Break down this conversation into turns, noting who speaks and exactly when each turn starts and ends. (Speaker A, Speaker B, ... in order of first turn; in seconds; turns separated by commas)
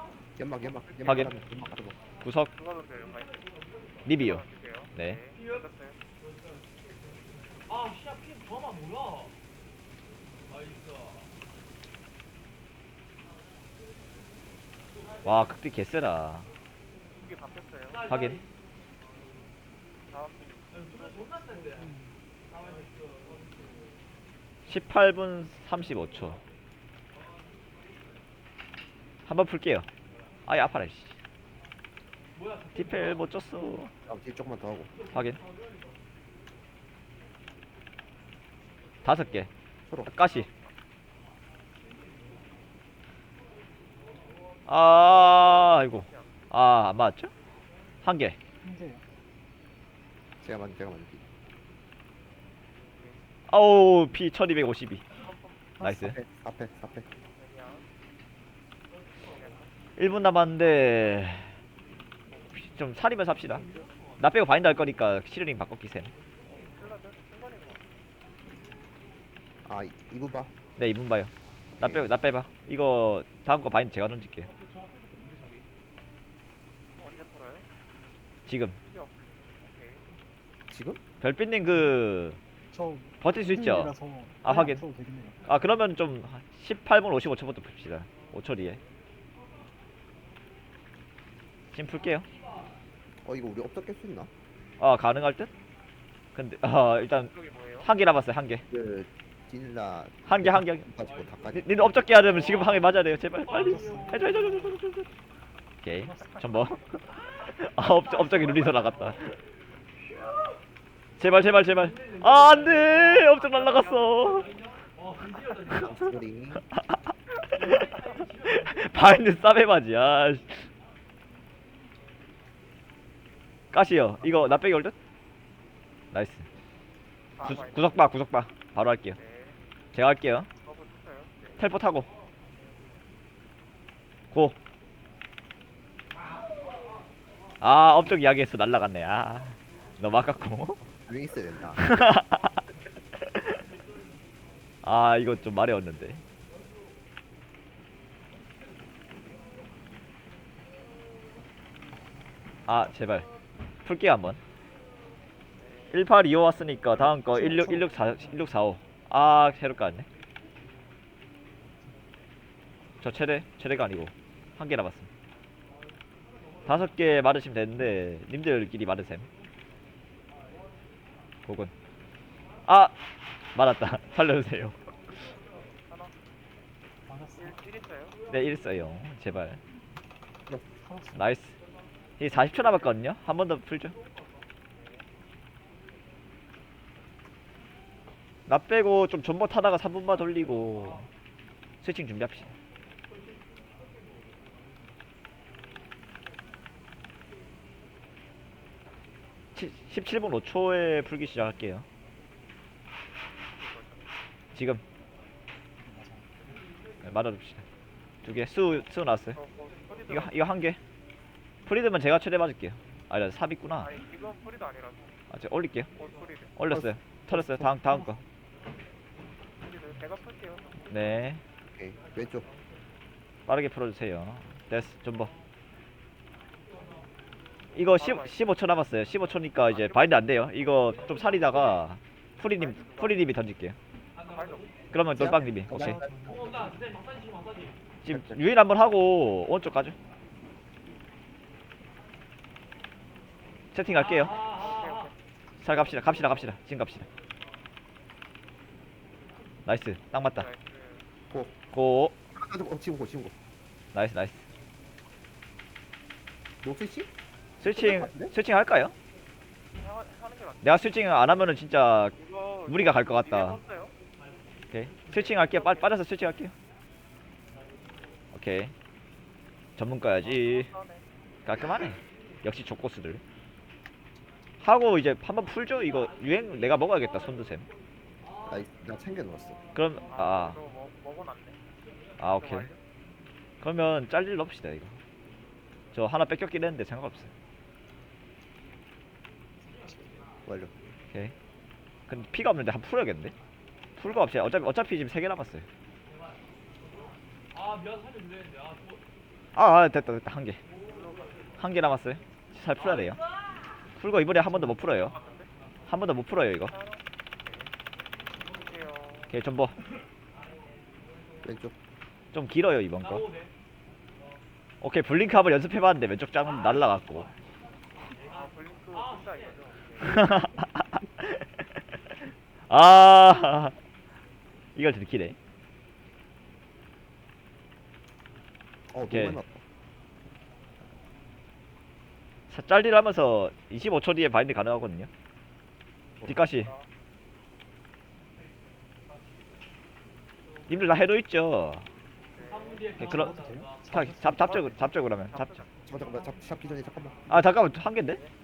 Speaker A: 0.4-2.0, Speaker B: 1.1-1.3, Speaker B: 2.2-2.5, Speaker C: 2.6-3.4, Speaker B: 4.1-5.2, Speaker C: 4.2-6.0, Speaker B: 15.2-16.5, Speaker C: 17.1-18.1, Speaker B: 18.0-18.4, Speaker C: 20.1-20.9, Speaker D: 21.5-22.2, Speaker B: 24.7-26.4, Speaker B: 29.3-29.9, Speaker B: 30.5-31.2, Speaker B: 32.8-33.9, Speaker A: 34.1-35.0, Speaker B: 35.1-35.4, Speaker B: 39.0-39.5, Speaker A: 39.9-40.1, Speaker B: 40.0-40.5, Speaker B: 44.7-47.3, Speaker C: 45.7-46.3, Speaker B: 48.0-48.4, Speaker D: 48.6-49.0, Speaker A: 50.4-51.3, Speaker B: 53.5-55.1, Speaker C: 55.2-55.6, Speaker B: 55.8-56.1, Speaker A: 55.9-57.1, Speaker C: 57.3-57.9, Speaker C: 59.3-59.7, Speaker B: 60.0-61.5, Speaker B: 62.5-63.7, Speaker B: 64.2-66.1, Speaker C: 66.5-67.9, Speaker A: 69.7-70.5, Speaker B: 70.8-74.5, Speaker A: 71.8-72.1, Speaker C: 77.0-77.7, Speaker B: 78.5-78.8, Speaker C: 78.9-80.0, Speaker A: 80.7-81.0, Speaker B: 81.2-82.4, Speaker D: 82.7-85.5, Speaker B: 83.2-84.8, Speaker B: 85.5-88.8, Speaker B: 91.7-92.3, Speaker A: 93.2-94.3, Speaker B: 94.8-95.5, Speaker B: 96.3-98.6, Speaker C: 97.2-97.9, Speaker A: 98.7-102.0, Speaker B: 100.3-100.9, Speaker B: 101.5-105.1, Speaker D: 103.5-104.5, Speaker B: 105.8-109.4, Speaker D: 106.1-106.4, Speaker B: 111.2-114.5, Speaker C: 113.5-114.3, Speaker A: 115.7-116.7, Speaker B: 116.7-120.7, Speaker B: 123.7-125.0, Speaker B: 126.1-126.5, Speaker C: 127.4-128.0, Speaker B: 127.4-129.2, Speaker C: 129.2-129.6, Speaker B: 129.9-130.5, Speaker C: 130.6-131.6, Speaker B: 131.6-132.1, Speaker B: 134.3-134.6, Speaker B: 137.6-140.8, Speaker A: 140.9-142.0, Speaker B: 141.8-142.6, Speaker B: 143.3-143.6, Speaker B: 144.8-146.2, Speaker B: 152.7-153.3, Speaker B: 153.8-154.4, Speaker C: 155.6-156.0, Speaker B: 155.9-160.1, Speaker D: 157.2-157.9, Speaker B: 163.0-165.1, Speaker B: 166.7-169.3, Speaker B: 171.5-171.7, Speaker B: 172.7-172.9, Speaker B: 173.6-174.8, Speaker C: 175.8-176.2, Speaker D: 177.1-177.6, Speaker C: 177.4-178.2, Speaker B: 178.3-179.6, Speaker D: 180.8-181.3, Speaker B: 181.2-181.5, Speaker B: 182.2-184.0, Speaker C: 184.7-185.1, Speaker B: 188.5-191.1, Speaker B: 191.8-192.5, Speaker B: 199.6-201.9, Speaker C: 203.5-204.1, Speaker B: 204.6-204.8, Speaker D: 205.8-206.4, Speaker B: 207.0-207.6, Speaker B: 208.2-209.4, Speaker C: 209.4-210.3, Speaker B: 210.1-210.8, Speaker B: 211.7-213.9, Speaker C: 213.8-215.2, Speaker B: 215.3-215.9, Speaker C: 216.0-216.5, Speaker B: 216.6-218.2, Speaker A: 216.7-218.1, Speaker C: 219.6-221.1, Speaker B: 220.9-221.4, Speaker A: 221.7-222.5, Speaker B: 223.5-225.3, Speaker B: 227.8-233.8, Speaker C: 227.9-228.4, Speaker C: 232.6-233.2, Speaker C: 234.2-234.8, Speaker B: 234.9-236.0, Speaker A: 235.2-236.6, Speaker D: 235.7-237.1, Speaker B: 238.0-239.9, Speaker A: 238.1-238.4, Speaker B: 243.7-244.4, Speaker C: 244.5-245.1, Speaker B: 245.6-247.1, Speaker B: 249.7-250.5, Speaker C: 250.2-251.1, Speaker A: 251.3-251.6, Speaker B: 251.7-252.2, Speaker A: 252.3-253.3, Speaker B: 253.9-254.4, Speaker A: 256.6-257.1, Speaker B: 257.6-258.9, Speaker A: 257.6-258.3, Speaker C: 259.8-260.9, Speaker B: 260.6-262.2, Speaker C: 262.2-263.9, Speaker B: 262.7-263.6, Speaker B: 264.7-266.5, Speaker C: 265.3-265.9, Speaker B: 268.3-268.7, Speaker B: 269.8-270.7, Speaker C: 270.3-271.1, Speaker B: 271.5-273.2, Speaker B: 274.6-277.7, Speaker A: 278.4-279.6, Speaker B: 279.8-280.6, Speaker C: 280.1-281.6, Speaker B: 282.2-282.7, Speaker C: 282.3-282.8, Speaker B: 283.6-285.0, Speaker B: 285.9-287.3, Speaker D: 289.7-290.2, Speaker A: 290.5-290.7, Speaker B: 292.1-293.4, Speaker B: 294.0-295.6, Speaker B: 299.6-300.6, Speaker C: 300.9-301.3, Speaker B: 301.6-303.2, Speaker B: 304.0-305.2, Speaker C: 305.1-305.5, Speaker B: 305.9-306.8, Speaker C: 306.7-307.7, Speaker C: 308.6-309.3, Speaker B: 309.3-309.8, Speaker A: 311.4-311.8, Speaker B: 312.3-313.3, Speaker B: 314.8-317.3, Speaker C: 318.3-320.5, Speaker B: 320.1-321.6, Speaker B: 322.7-323.8, Speaker B: 324.8-325.4, Speaker A: 328.9-329.6, Speaker B: 329.1-329.4, Speaker B: 332.5-335.1, Speaker B: 336.3-336.7, Speaker C: 336.5-336.9, Speaker B: 340.7-341.9, Speaker C: 342.4-343.1, Speaker D: 343.0-344.8, Speaker B: 343.0-345.6, Speaker C: 345.3-345.6, Speaker A: 345.9-347.4, Speaker B: 347.3-348.2